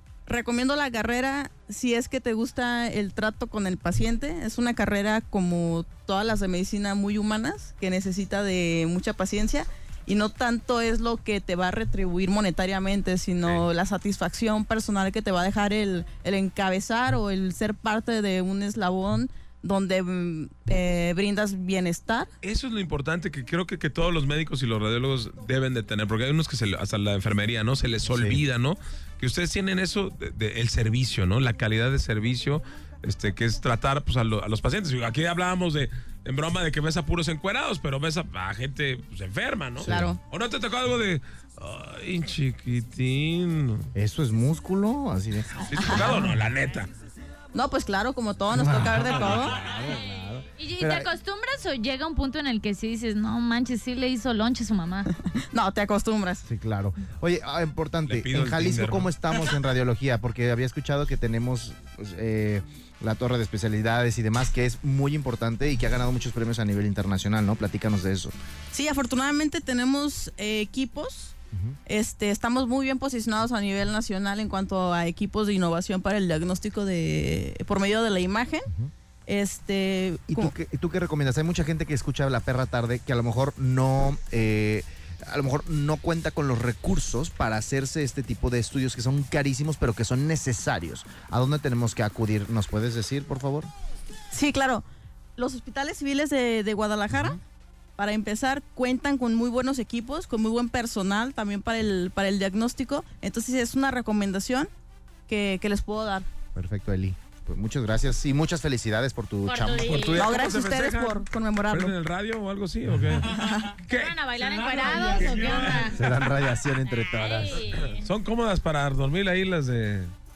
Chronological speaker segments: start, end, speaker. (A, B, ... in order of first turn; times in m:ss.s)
0:00.3-0:22.3 A
0:22.4-0:43.9 B
0:28.1-0:28.4 C
0:39.8-0:40.1 C
0:39.8-0:40.2 A
0:44.0-0:46.3 C
0:45.7-0:46.9 B
0:45.8-0:46.1 A
0:47.5-0:49.6 A
0:48.5-0:50.9 C
0:50.6-0:55.1 D
0:55.3-0:56.5 A
0:56.5-1:08.3 C
0:58.1-0:59.1 B
1:08.7-1:11.4 A
1:11.9-1:18.7 A
1:19.3-1:20.5 A
1:20.3-1:33.7 C
1:34.3-1:34.8 A
1:35.4-1:37.4 A
1:37.1-1:37.4 C
1:38.0-1:44.7 A
1:45.3-1:46.3 A
1:46.6-1:50.2 C
1:49.4-1:50.3 D
1:49.8-1:54.2 B
1:50.2-1:51.9 A
1:53.3-1:53.8 A
1:53.9-1:56.0 D
1:54.7-1:55.9 B
1:55.9-1:57.8 C
1:57.0-1:58.0 D
1:58.0-2:00.1 B